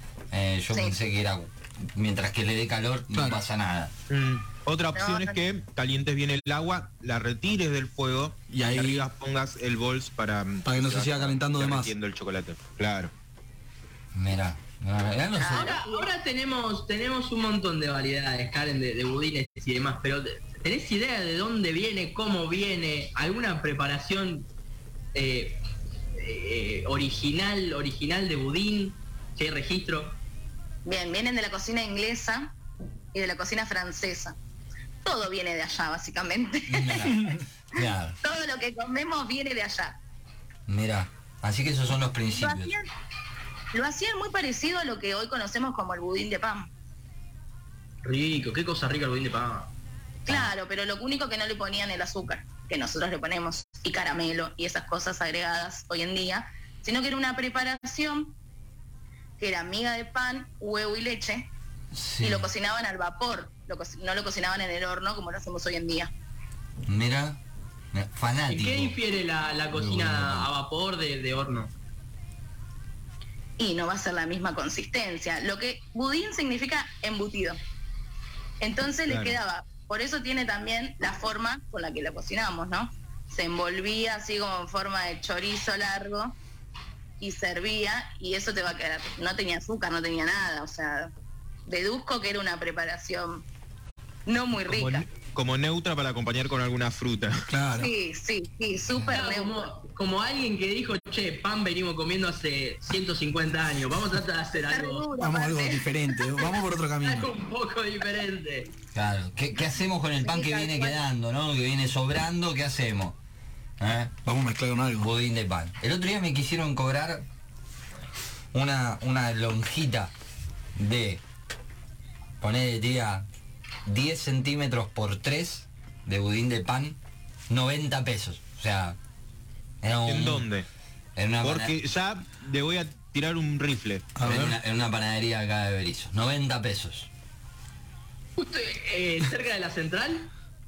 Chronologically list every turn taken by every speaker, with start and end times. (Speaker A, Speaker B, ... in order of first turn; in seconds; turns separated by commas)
Speaker A: 0.3-3.9, Speaker B: 3.1-3.4, Speaker C: 4.1-13.1, Speaker D: 5.0-5.4, Speaker B: 8.5-9.1, Speaker B: 10.7-11.9, Speaker A: 14.1-15.8, Speaker D: 15.4-16.1, Speaker E: 15.5-24.5, Speaker E: 25.1-25.6, Speaker E: 26.2-30.2, Speaker D: 30.9-32.5, Speaker D: 33.1-34.4, Speaker D: 35.0-37.3, Speaker A: 36.7-38.2, Speaker D: 38.2-40.0, Speaker A: 40.7-42.7, Speaker D: 42.4-42.9, Speaker D: 43.7-46.7, Speaker E: 48.0-49.7, Speaker D: 50.2-58.4, Speaker D: 59.4-61.5, Speaker A: 61.9-62.5, Speaker D: 62.2-66.1, Speaker A: 66.9-67.4, Speaker A: 67.9-69.0, Speaker E: 68.5-71.7, Speaker A: 69.7-70.5, Speaker D: 73.6-77.6, Speaker D: 78.6-86.4, Speaker C: 79.1-79.4, Speaker D: 87.2-91.1, Speaker D: 91.7-93.5, Speaker D: 94.3-95.0, Speaker C: 94.7-97.5, Speaker B: 97.5-97.9, Speaker D: 97.7-99.7, Speaker A: 98.9-99.2, Speaker E: 99.1-105.1, Speaker D: 104.5-106.5, Speaker B: 105.2-107.3, Speaker E: 107.0-108.7, Speaker A: 108.9-113.2, Speaker D: 110.2-111.0, Speaker A: 113.8-114.2, Speaker B: 114.2-115.1, Speaker A: 115.0-117.3, Speaker A: 118.5-120.1, Speaker A: 120.8-121.2, Speaker A: 122.4-123.3, Speaker A: 123.9-127.0, Speaker A: 127.5-129.0, Speaker A: 129.8-130.5, Speaker C: 130.1-130.7, Speaker A: 131.2-131.8, Speaker C: 131.4-134.1, Speaker B: 134.2-134.6, Speaker A: 134.2-137.1, Speaker E: 138.4-140.3